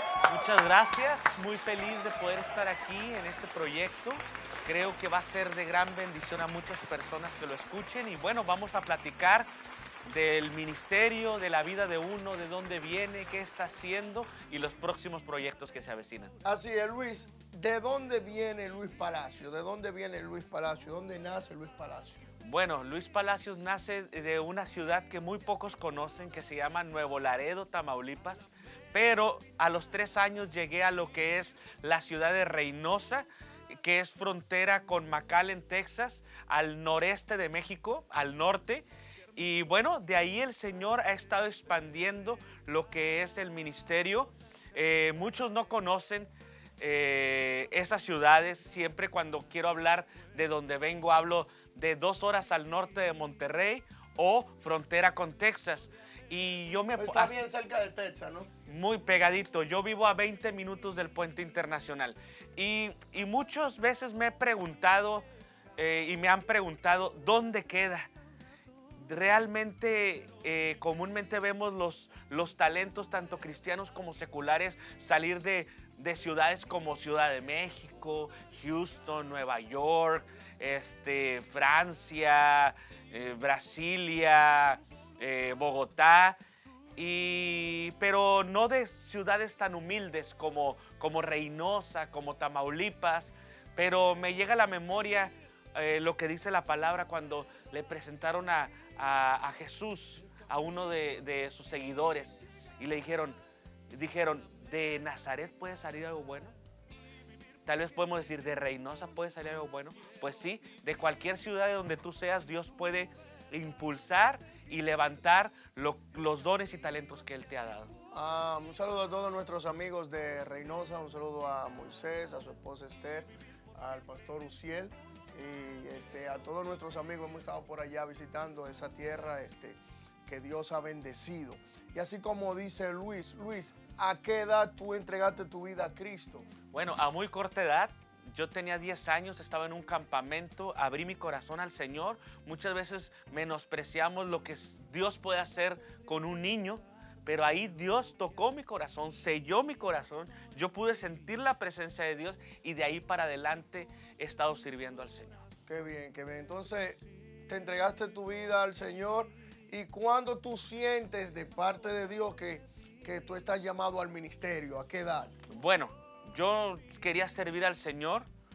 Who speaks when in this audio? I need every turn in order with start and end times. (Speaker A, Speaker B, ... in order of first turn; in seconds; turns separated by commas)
Speaker A: 0.3-9.5, Speaker A: 10.1-16.3, Speaker B: 16.4-22.2, Speaker A: 22.4-33.3, Speaker A: 33.8-57.4, Speaker B: 57.0-58.5, Speaker A: 58.7-65.3, Speaker A: 65.8-68.1, Speaker A: 69.0-86.4, Speaker A: 87.0-103.4, Speaker A: 103.9-106.5, Speaker A: 107.7-117.9, Speaker B: 118.1-136.5, Speaker A: 136.7-155.4, Speaker B: 155.7-165.3, Speaker A: 165.5-168.3